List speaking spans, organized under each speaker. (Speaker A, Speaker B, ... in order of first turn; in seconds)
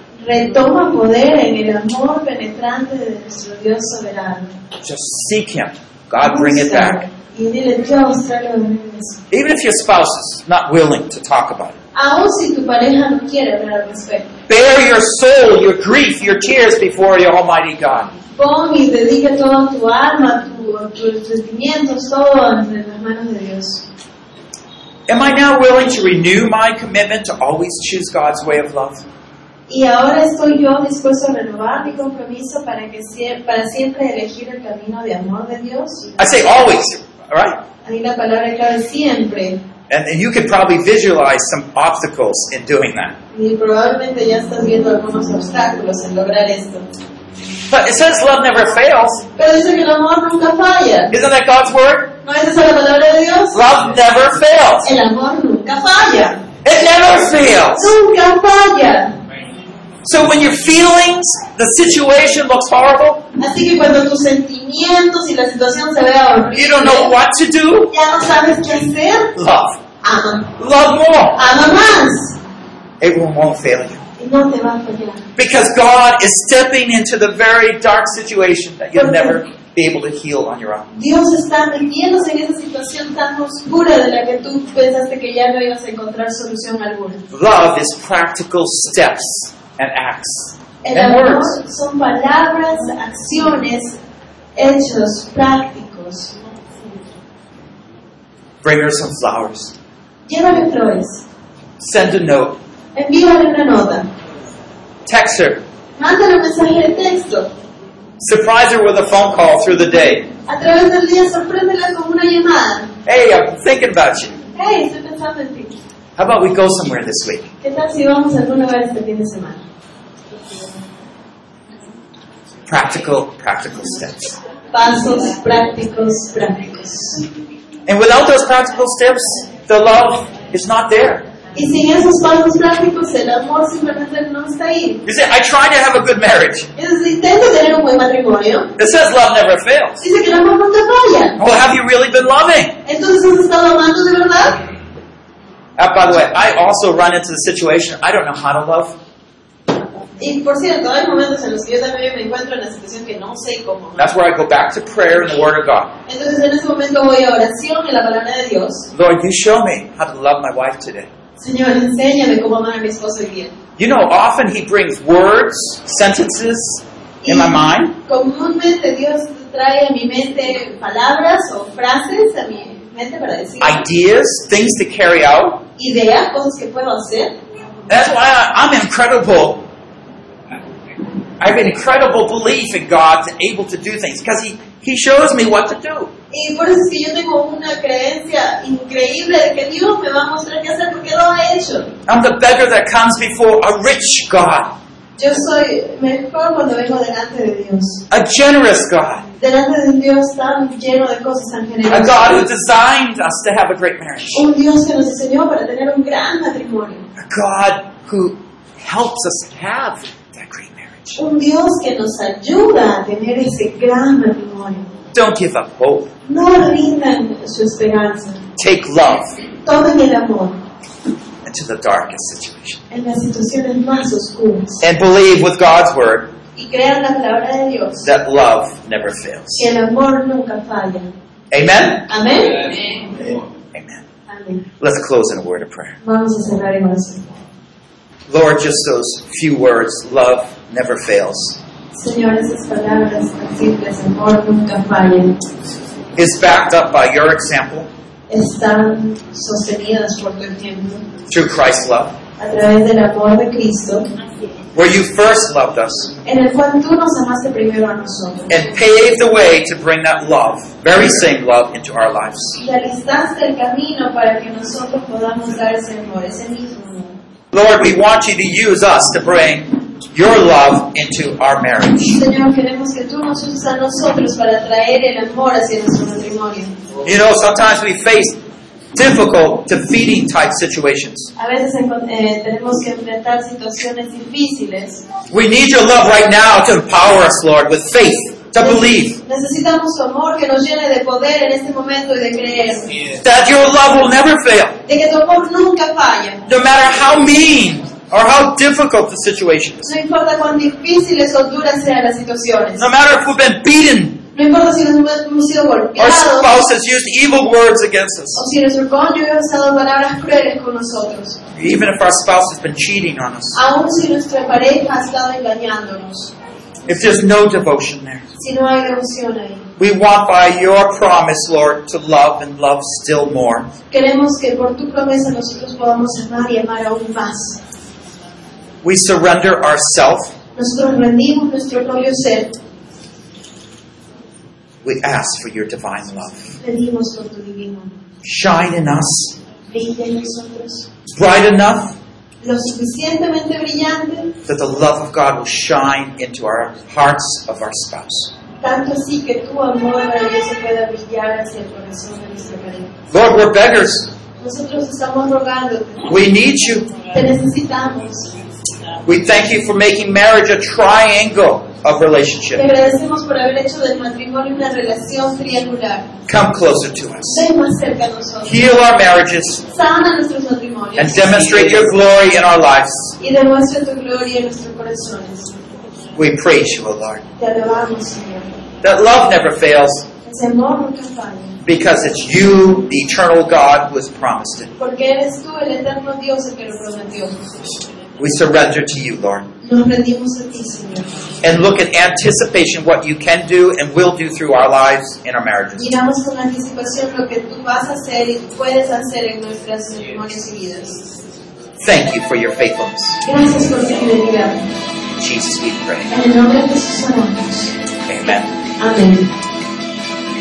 Speaker A: 0.2-4.6, 6.2-9.2, 11.9-14.3, 18.4-23.9, 29.7-36.2, 37.9-39.6, 43.3-46.9, 49.4-51.1, 52.2-53.6, 54.8-56.4, 57.8-59.1, 63.4-67.2, 67.9-69.3, 70.0-70.5, 71.3-72.4, 74.2-75.2, 79.0-79.4, 80.9-87.2, 90.8-94.0, 94.6-96.5, 100.3-101.2, 103.0-104.1, 106.0-107.5, 110.5-113.0, 114.5-115.8, 117.6-119.6, 124.7-127.3, 131.5-135.0, 136.8-138.7, 140.0-141.4, 142.8-144.6, 150.2-154.1, 156.1-158.9, 161.4-163.6, 167.2-173.8, 175.8-177.4, 186.3-191.9, 195.2-198.0, 199.4-202.4, 204.3-207.1, 211.2-214.9, 216.3-218.4, 219.7-220.6, 222.9-224.8, 226.6-228.1, 229.6-231.2, 232.1-232.9, 234.3-234.7, 236.0-237.4, 241.9-245.4, 248.3-251.1, 252.4-254.1, 256.2-258.6, 262.6-267.2, 272.1-276.8, 281.4-285.0, 288.6-293.1, 294.9-296.5, 299.9-302.9, 304.3-306.5, 308.3-311.4, 313.5-316.3, 318.4-319.7, 323.9-327.6, 330.6-332.6, 336.6-338.0, 339.7-340.9, 342.4-344.4, 348.6-352.9, 354.4-356.1, 357.1-358.3, 362.5-366.1, 367.3-368.7, 369.7-371.6, 373.2-375.6, 377.4-378.6, 380.2-381.6, 384.8-387.8, 389.6-391.3, 395.8-401.0, 403.2-404.7, 406.1-407.8, 408.8-409.3
Speaker B: 4.8-7.1, 9.3-11.8, 14.5-18.1, 25.1-29.0, 36.2-37.6, 39.9-43.2, 47.7-49.2, 51.1-52.2, 53.5-54.9, 56.6-58.0, 60.0-63.2, 66.5-67.9, 69.4-69.8, 70.6-71.4, 73.0-74.0, 75.4-80.9, 87.3-91.6, 98.6-99.7, 101.8-102.6, 105.1-105.6, 108.2-110.3, 113.0-114.4, 116.2-117.5, 122.7-124.4, 127.9-131.3, 135.1-136.7, 138.8-140.0, 141.4-142.8, 145.8-149.0, 154.0-155.9, 158.9-161.1, 163.8-167.9, 173.6-175.6, 177.9-179.7, 181.4-186.1, 192.1-194.8, 198.1-199.2, 201.9-204.5, 207.2-211.2, 215.1-216.1, 218.6-219.4, 221.4-222.8, 224.8-226.3, 228.0-229.7, 231.5-232.1, 233.1-234.1, 234.8-236.0, 238.3-241.6, 246.2-247.9, 251.3-252.2, 254.8-256.1, 258.5-262.6, 267.5-272.2, 277.0-278.4, 278.9-281.3, 285.3-289.2, 293.1-294.8, 296.5-299.9, 302.8-304.2, 306.0-308.4, 311.6-313.6, 316.9-318.2, 319.8-323.7, 328.8-330.4, 334.8-336.6, 338.2-339.4, 341.1-342.0, 344.4-348.3, 353.1-354.1, 356.0-356.9, 359.0-362.7, 366.3-367.4, 368.4-369.6, 371.0-373.2, 376.1-377.2, 378.8-380.1, 381.6-384.7, 388.2-389.5, 391.4-395.9, 401.8-403.2, 405.2-406.1, 408.1-408.5